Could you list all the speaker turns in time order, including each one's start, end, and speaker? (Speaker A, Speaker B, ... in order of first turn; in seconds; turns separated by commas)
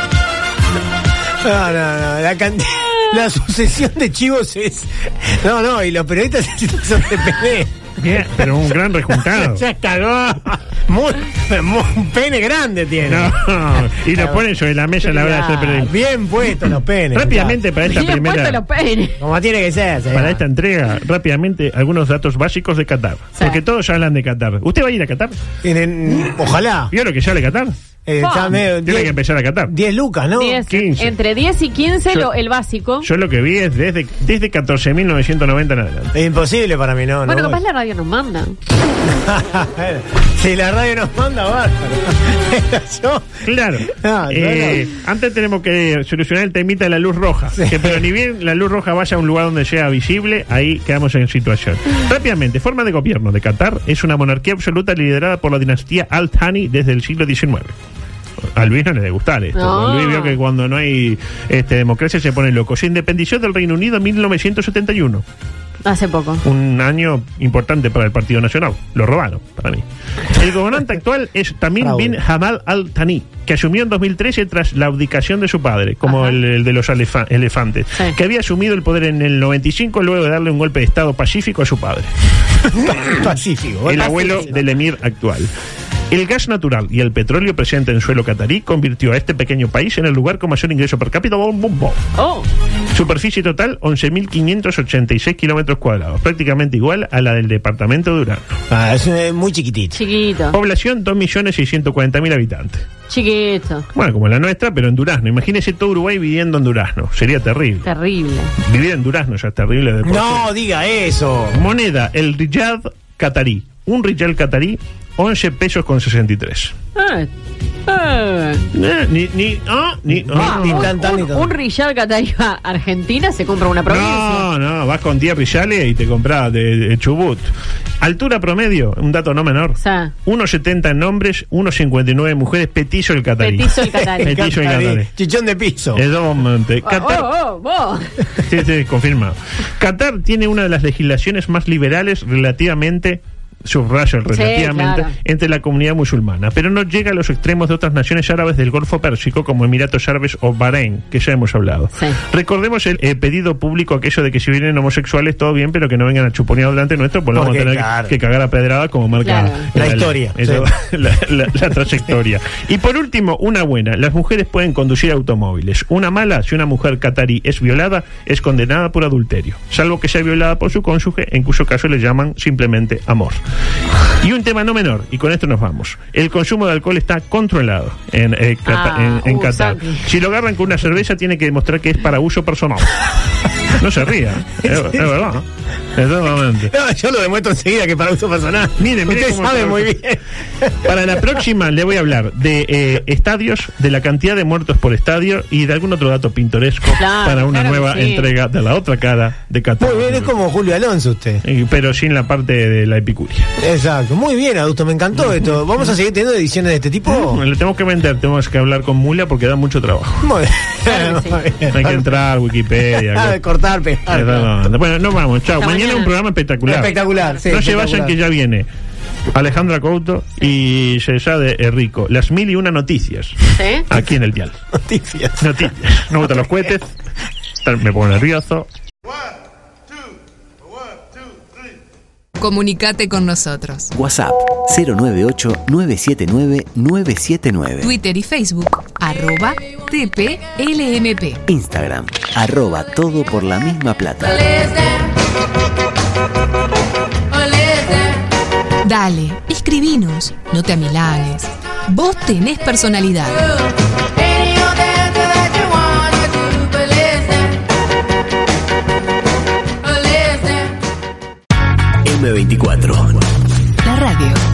Speaker A: 1.4-7.7, Speaker B: 8.0-9.6, Speaker A: 9.1-13.3, Speaker B: 13.0-15.9, Speaker A: 14.1-14.4, Speaker C: 15.1-15.8, Speaker A: 15.8-17.6, Speaker B: 17.1-18.6, Speaker C: 17.9-19.2, Speaker A: 19.2-20.4, Speaker B: 20.1-25.4, Speaker A: 25.6-26.9, Speaker B: 26.9-27.7, Speaker A: 28.1-29.2, Speaker C: 28.2-28.6, Speaker B: 28.8-29.7, Speaker A: 29.7-30.6, Speaker C: 30.4-33.1, Speaker B: 30.7-31.1, Speaker B: 33.0-36.1, Speaker A: 36.1-37.6, Speaker C: 37.2-38.5, Speaker A: 39.1-44.9, Speaker B: 43.4-57.7, Speaker A: 47.6-48.0, Speaker B: 58.5-65.2, Speaker C: 59.5-60.4, Speaker C: 65.8-66.4, Speaker B: 66.4-82.1, Speaker A: 71.8-72.2, Speaker C: 76.0-76.4, Speaker A: 82.8-84.6, Speaker B: 83.8-85.5, Speaker B: 86.1-92.0, Speaker C: 92.1-92.5, Speaker B: 92.9-98.4, Speaker A: 98.7-100.0, Speaker C: 99.9-100.5, Speaker B: 100.5-102.8, Speaker C: 103.1-103.8, Speaker B: 103.9-107.9, Speaker C: 107.8-108.5, Speaker B: 108.6-110.5, Speaker A: 110.0-111.6, Speaker B: 111.5-116.7, Speaker C: 117.0-117.3, Speaker C: 117.9-118.6, Speaker B: 118.7-121.0, Speaker A: 120.1-121.5, Speaker C: 120.3-124.5, Speaker B: 123.8-127.5, Speaker B: 128.0-135.1, Speaker C: 129.8-130.1, Speaker C: 133.4-134.3, Speaker A: 134.2-136.0, Speaker B: 135.9-137.3, Speaker C: 136.8-138.1, Speaker B: 138.4-173.4, Speaker C: 144.3-145.1, Speaker A: 157.3-158.2, Speaker C: 159.2-159.7, Speaker A: 159.7-160.7, Speaker B: 174.2-183.1, Speaker C: 178.7-180.1, Speaker B: 183.7-185.4, Speaker A: 184.6-185.0, Speaker B: 185.9-186.7, Speaker A: 186.7-190.9, Speaker B: 188.8-190.0, Speaker B: 190.8-200.3, Speaker C: 197.0-198.3, Speaker A: 199.8-201.4, Speaker B: 201.4-203.5, Speaker A: 203.6-207.4, Speaker B: 207.1-210.3, Speaker A: 210.2-212.2, Speaker C: 210.8-211.4, Speaker B: 211.7-213.4, Speaker A: 212.9-214.7, Speaker B: 214.1-218.7, Speaker C: 215.6-216.1, Speaker A: 216.6-218.2, Speaker B: 219.3-224.6, Speaker C: 223.6-223.8, Speaker A: 224.7-225.6, Speaker B: 225.4-226.9, Speaker B: 227.6-228.7, Speaker D: 232.4-233.9, Speaker E: 233.9-237.9, Speaker D: 237.8-241.4, Speaker E: 241.5-244.7, Speaker D: 248.8-253.5, Speaker E: 262.0-263.2, Speaker D: 263.8-264.4